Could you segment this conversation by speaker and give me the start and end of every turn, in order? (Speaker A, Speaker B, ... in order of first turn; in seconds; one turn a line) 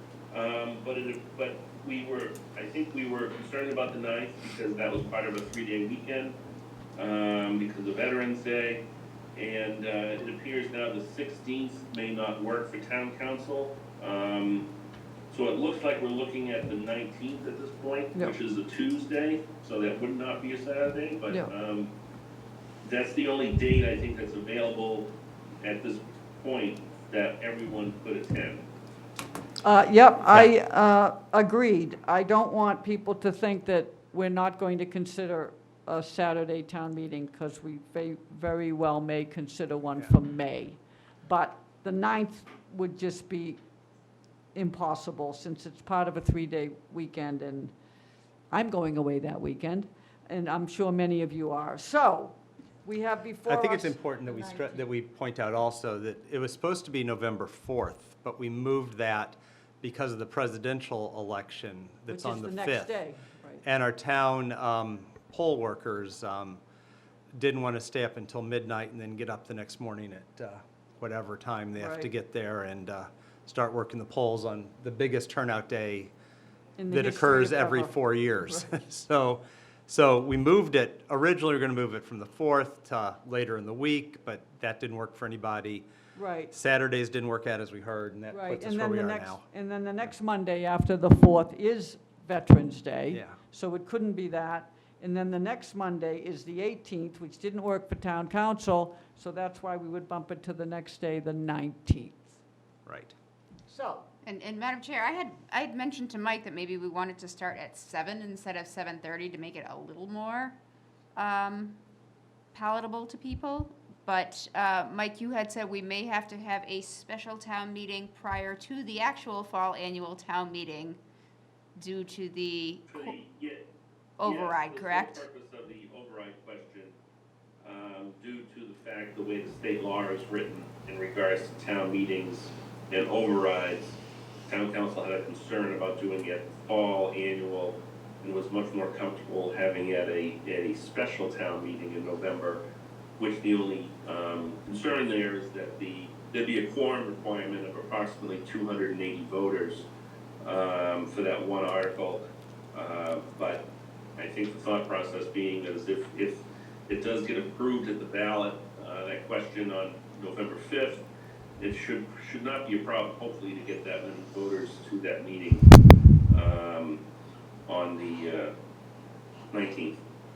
Speaker A: 0.3-6.3
Speaker A: 7.0-8.8
Speaker A: 9.3-14.7
Speaker A: 15.3-21.9
Speaker A: 22.8-25.1
Speaker A: 25.6-28.6
Speaker B: 29.6-43.6
Speaker B: 44.5-47.7
Speaker B: 48.5-54.8
Speaker C: 53.5-62.9
Speaker B: 62.1-63.6
Speaker C: 63.6-66.6
Speaker C: 67.4-76.1
Speaker B: 71.8-72.1
Speaker B: 76.8-78.7
Speaker C: 76.9-85.9
Speaker B: 86.1-86.5
Speaker C: 86.5-89.4
Speaker B: 88.3-102.3
Speaker C: 93.1-93.4
Speaker C: 102.8-103.1
Speaker B: 103.7-104.0
Speaker D: 104.2-110.5
Speaker D: 111.1-111.8
Speaker D: 112.5-121.0
Speaker D: 121.8-123.1
Speaker A: 122.9-123.7
Speaker D: 124.2-125.2
Speaker A: 124.2-126.9
Speaker A: 127.6-142.6
Speaker A: 143.2-149.9
Speaker A: 150.4-153.6
Speaker A: 154.2-161.0
Speaker A: 161.6-165.6
Speaker A: 166.3-167.0
Speaker A: 167.7-168.5
Speaker A: 169.5-170.0